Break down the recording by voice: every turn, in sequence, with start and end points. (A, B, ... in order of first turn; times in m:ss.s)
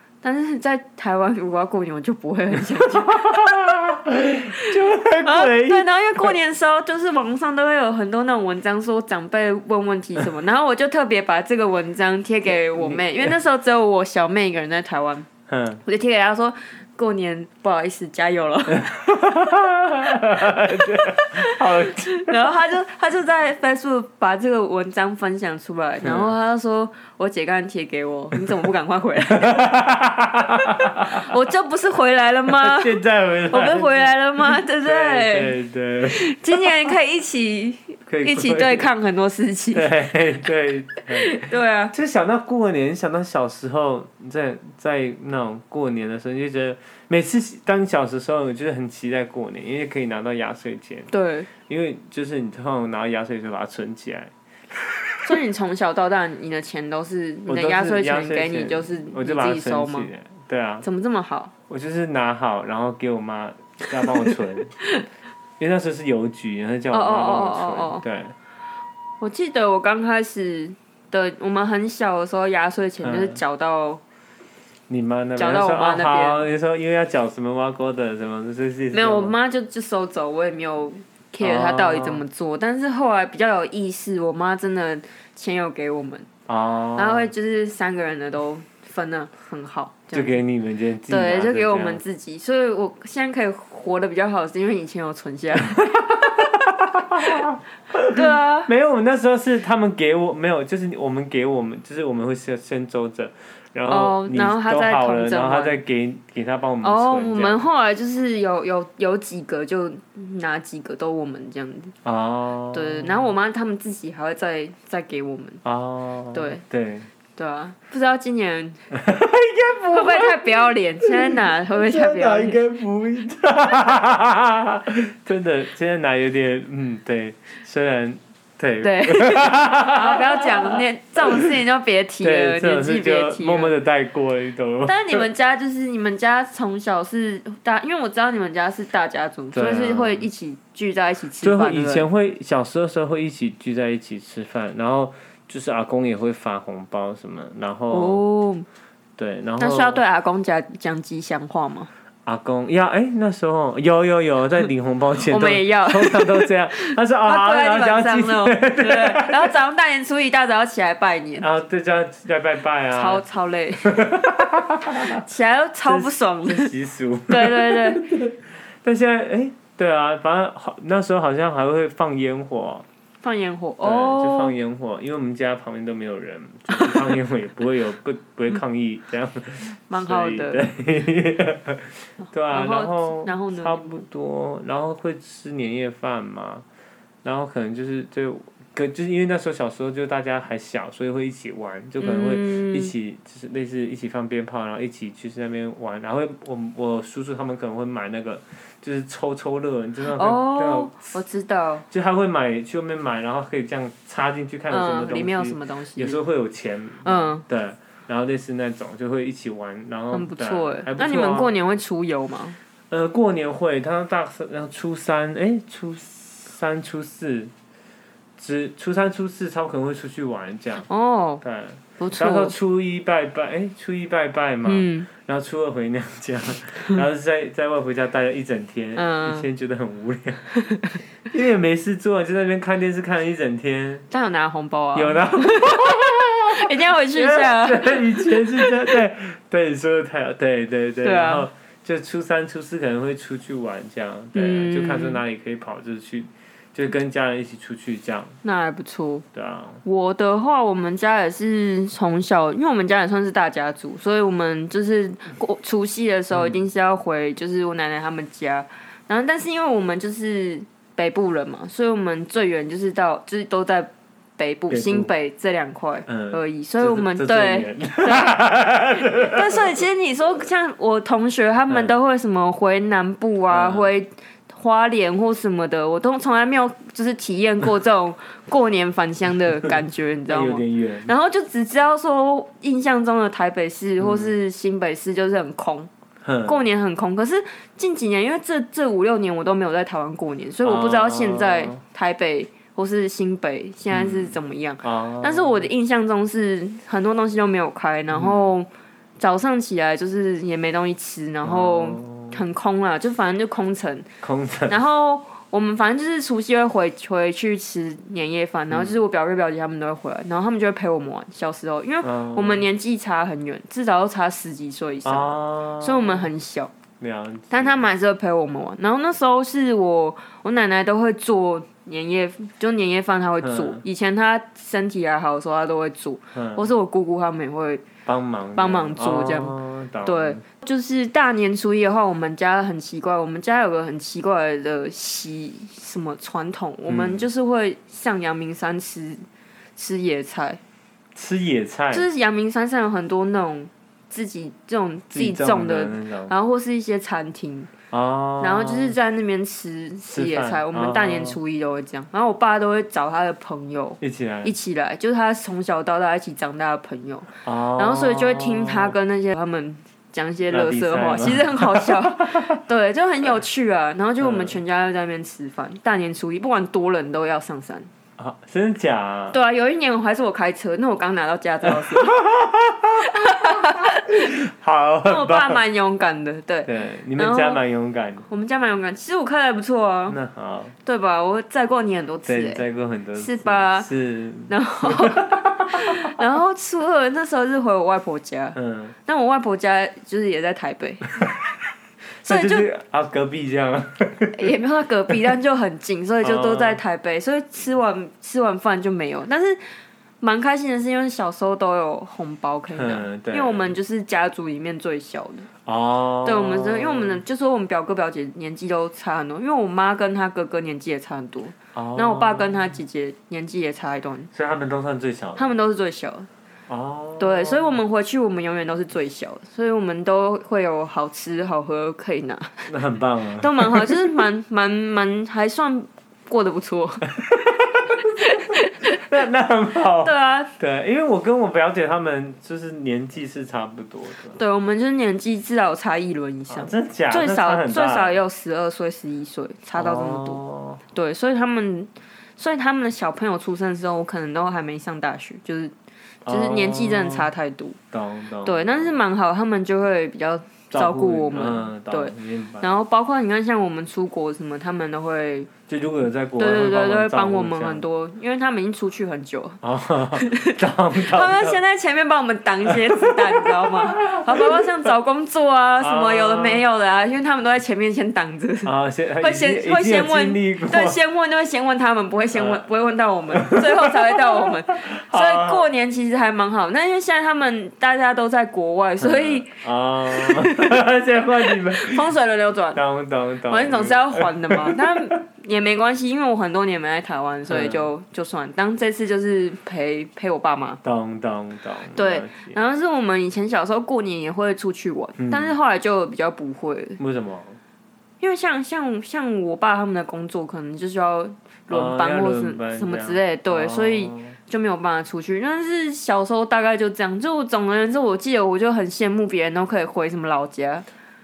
0:00.2-0:03.8 A
0:02.8-0:06.3 B
0:04.6-0:15.3 A
0:12.7-0:13.3 B
0:15.5-0:15.8 B
0:15.8-0:19.2 A
0:18.8-0:22.4 B
0:20.4-0:29.6 A
0:26.0-0:26.3 B
0:29.3-0:31.3 B
0:31.0-0:35.5 A
0:32.5-0:36.3 B
0:36.1-0:39.9 A
0:38.1-0:38.9 B
0:39.7-0:51.1 B
0:41.1-0:41.9 A
0:51.1-0:51.5 A
0:51.6-0:54.3 B
0:55.2-1:00.1 A
0:57.5-1:00.8 B
1:00.8-1:01.5 A
1:01.7-1:04.7 B
1:05.6-1:08.3 B
1:06.9-1:08.0 A
1:09.2-1:14.0 A
1:13.0-1:13.4 B
1:14.9-1:19.3 B
1:15.4-1:16.4 A
1:18.9-1:26.3 A
1:21.4-1:22.2 B
1:26.5-1:27.3 B
1:26.9-1:30.4 A
1:30.1-1:32.0 B
1:31.1-1:36.6 A
1:36.4-1:47.6 B
1:37.1-1:37.5 A
1:38.1-1:38.7 A
1:43.9-1:45.8 A
1:46.8-1:51.9 A
1:52.0-1:53.3 B
1:52.7-1:55.6 A
1:55.6-1:57.1 B
1:56.3-1:56.6 A
1:57.3-1:58.9 A
1:58.9-2:11.5 B
1:59.9-2:02.6 A
2:08.8-2:13.7 A
2:12.2-2:15.2 B
2:14.8-2:22.0 A
2:19.5-2:20.3 B
2:21.4-2:28.2 B
2:27.9-2:28.7 A
2:29.2-2:30.0 B
2:29.6-2:31.9 A
2:32.2-2:39.6 B
2:35.2-2:41.5 A
2:41.4-2:43.2 B
2:42.9-2:44.0 A
2:43.8-2:45.2 B
2:45.0-2:46.7 A
2:45.8-2:52.8 B
2:47.3-2:48.1 A
2:53.2-2:54.5 A
2:53.8-3:06.6 B
2:59.9-3:00.6 A
3:02.2-3:04.0 A
3:07.2-3:21.2 B
3:12.0-3:12.9 A
3:20.0-3:21.8 A
3:21.9-3:31.5 B
3:24.7-3:26.2 A
3:27.0-3:27.4 A
3:30.1-3:32.6 A
3:32.9-3:37.5 B
3:38.4-3:40.9 B
3:40.9-3:41.4 A
3:41.4-3:50.5 B
3:42.0-3:42.5 A
3:44.6-3:45.1 A
3:49.0-3:49.5 A
3:50.5-3:51.0 A
3:51.2-3:54.1 B
3:54.1-3:59.0 A
3:54.9-4:08.4 B
4:01.0-4:01.5 A
4:04.3-4:05.2 A
4:08.4-4:09.2 A
4:09.3-4:09.8 B
4:09.8-4:45.9 A
4:16.3-4:16.6 B
4:24.7-4:25.1 B
4:26.1-4:29.7 B
4:33.5-4:33.9 B
4:40.3-4:41.1 B
4:44.0-4:44.3 B
4:46.2-4:46.6 B
4:46.4-4:58.7 A
4:50.6-4:51.8 B
4:53.9-4:55.7 B
4:58.1-4:58.4 B
4:59.2-5:04.1 A
5:01.4-5:02.4 B
5:04.2-5:04.8 B
5:04.7-5:16.7 A
5:08.7-5:08.9 B
5:12.0-5:12.6 B
5:15.0-5:16.3 B
5:17.0-5:17.8 B
5:17.5-5:27.8 A
5:23.4-5:23.8 B
5:26.3-5:26.7 B
5:28.0-5:30.4 B
5:28.6-5:39.2 A
5:36.9-5:37.3 B
5:39.8-5:40.6 A
5:41.1-5:42.0 B
5:41.9-5:47.7 A
5:45.1-5:46.3 B
5:47.9-5:49.0 B
5:48.4-6:07.9 A
5:50.1-5:51.4 B
5:54.0-5:54.5 B
5:57.4-5:59.0 B
6:00.5-6:02.5 B
6:04.2-6:04.6 B
6:08.2-6:09.4 B
6:09.3-6:12.2 A
6:11.6-6:15.6 B
6:13.0-6:14.3 A
6:15.0-6:17.6 A
6:16.6-6:18.3 B
6:18.3-6:20.2 A
6:20.1-6:20.7 B
6:20.8-6:22.6 A
6:22.2-6:26.1 B
6:23.2-6:23.9 A
6:24.5-6:31.3 A
6:28.5-6:28.9 B
6:32.2-6:34.5 B
6:32.2-6:32.7 A
6:34.3-6:39.6 A
6:36.2-6:36.8 B
6:40.2-6:45.5 A
6:42.7-6:43.7 B
6:45.6-6:47.2 B
6:46.2-6:54.3 A
6:51.7-6:52.6 B
6:54.3-6:55.5 B
6:55.4-6:56.3 A
6:56.7-6:57.8 B
6:57.2-7:02.7 A
7:02.7-7:04.1 B
7:03.4-7:07.2 A
7:07.2-7:08.0 B
7:07.9-7:09.0 A
7:08.9-7:14.4 B
7:10.0-7:10.5 A
7:14.4-7:25.7 A
7:16.5-7:18.2 B
7:19.7-7:20.8 B
7:26.2-7:27.3 B
7:26.3-7:27.8 A
7:27.9-7:29.0 B
7:28.4-7:35.5 A
7:30.7-7:32.7 B
7:35.7-7:37.8 B
7:36.4-7:39.6 A
7:39.6-7:41.6 B
7:40.2-8:02.8 A
7:42.6-7:44.9 B
7:45.8-7:46.6 B
7:48.6-7:51.0 B
7:52.3-7:52.6 B
7:53.3-7:55.7 B
7:59.0-8:02.1 B
8:02.7-8:05.1 B
8:03.5-8:10.8 A
8:07.5-8:07.9 B
8:10.8-8:12.6 B
8:11.9-8:17.0 A
8:15.2-8:15.5 B
8:17.0-8:17.6 B
8:18.2-8:30.8 A
8:21.7-8:24.4 B